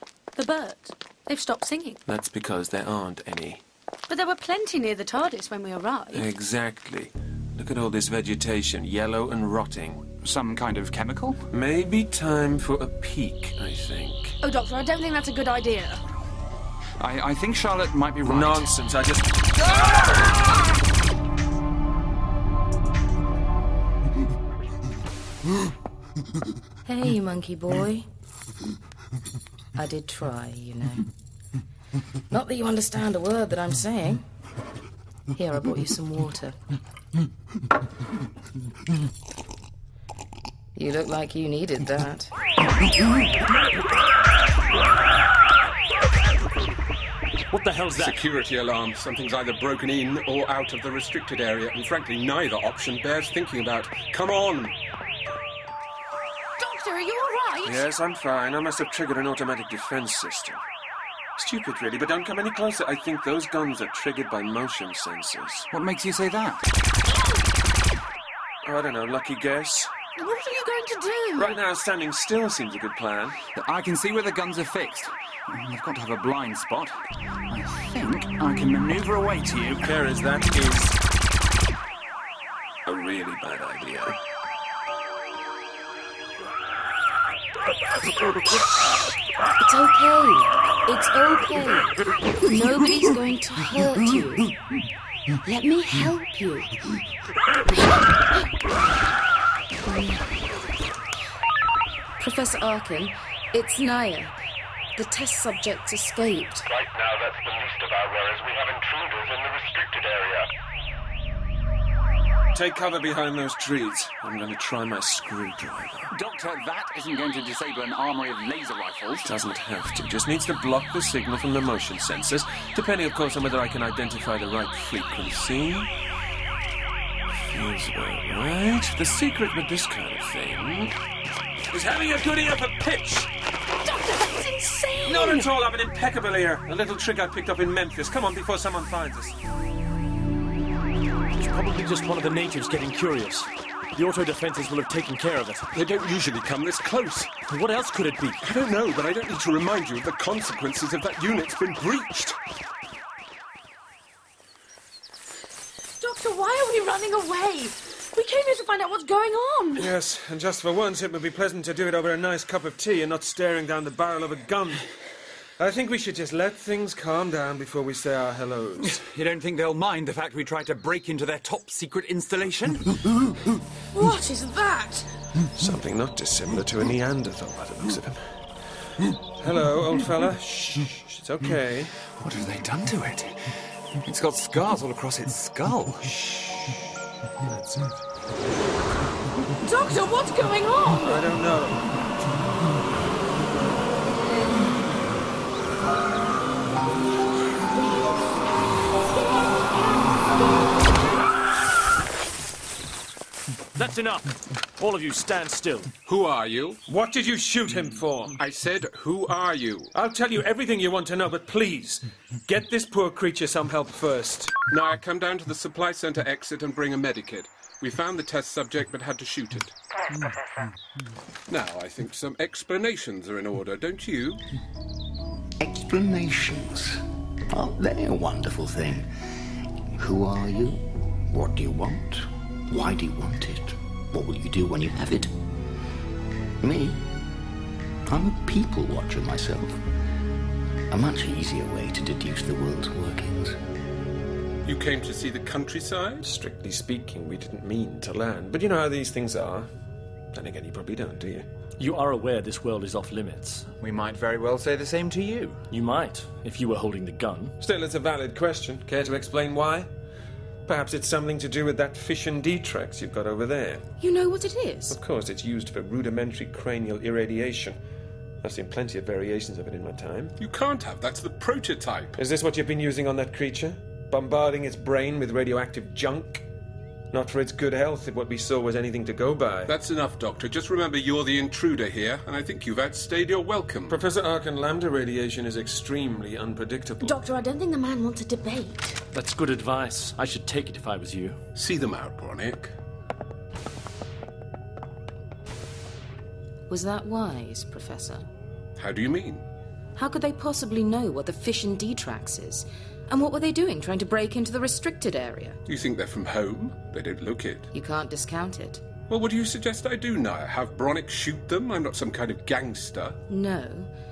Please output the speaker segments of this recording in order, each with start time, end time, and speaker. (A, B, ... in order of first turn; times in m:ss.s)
0:00.4-0:02.0 A
0:02.1-0:03.6 B
0:04.1-0:06.3 A
0:06.1-0:10.1 B
0:10.2-0:11.4 C
0:11.5-0:14.4 B
0:14.4-0:16.0 A
0:17.0-0:18.7 C
0:18.2-0:19.6 B
0:26.9-0:28.1 D
0:29.8-0:31.1 D
0:32.3-0:34.2 D
0:35.4-0:36.6 D
0:40.8-0:42.3 D
0:47.5-0:48.2 E
0:47.9-0:54.8 F
0:56.6-0:57.9 A
0:57.6-1:00.6 B
1:01.4-1:05.7 B
1:05.7-1:06.7 C
1:07.1-1:07.4 A
1:08.6-1:10.0 B
1:10.2-1:11.6 A
1:11.4-1:13.4 B
1:13.6-1:17.0 C
1:17.5-1:19.9 C
1:19.8-1:21.0 B
1:22.9-1:24.2 B
1:29.6-1:34.5 D
1:35.4-1:36.7 D
1:39.9-1:40.2 D
1:42.2-1:44.3 D
1:45.0-1:46.7 D
1:46.7-1:50.5 G
1:52.5-1:56.1 B
1:56.1-1:59.3 C
1:59.2-2:05.9 B
2:07.5-2:10.9 B
2:11.7-2:13.3 B
2:13.8-2:15.5 A
2:15.0-2:19.4 B
2:21.4-2:25.7 E
2:25.7-2:27.3 F
2:27.5-2:28.4 E
2:28.4-2:32.4 F
2:36.0-2:39.9 A
2:39.8-2:44.8 B
2:45.6-2:49.0 B
2:48.8-2:52.9 C
2:53.9-2:55.1 A
2:55.6-2:58.3 B
2:59.1-3:01.9 B
3:02.2-3:06.2 C
3:07.4-3:08.0 B
3:09.6-3:11.3 A
3:11.0-3:11.8 B
3:23.8-3:25.9 E
3:26.1-3:26.8 F
3:26.9-3:28.4 B
3:28.4-3:29.9 F
3:29.9-3:34.6 B
3:34.7-3:39.7 F
3:41.5-3:44.4 F
3:45.6-3:49.1 H
3:50.0-3:55.3 H
3:56.6-3:57.0 H
3:58.1-3:59.8 H
4:00.9-4:03.6 H
4:04.7-4:06.2 F
4:06.2-4:09.7 B
4:10.3-4:11.5 B
4:11.8-4:13.7 E
4:13.8-4:15.6 C
4:15.7-4:17.6 E
4:17.6-4:19.9 B
4:20.7-4:23.8 B
4:24.0-4:25.0 D
4:24.9-4:27.8 B
4:28.4-4:30.4 B
4:30.4-4:32.2 F
4:32.2-4:36.4 B
4:37.1-4:39.8 B
4:39.7-4:44.0 F
4:43.9-4:47.2 B
4:47.0-4:49.0 A
4:49.1-4:51.4 E
4:51.6-4:52.7 F
4:56.7-4:58.3 D
4:58.8-4:59.4 F
5:00.0-5:05.6 D
5:05.7-5:07.7 F
5:07.7-5:08.8 D
5:09.1-5:13.2 F
5:13.3-5:13.9 D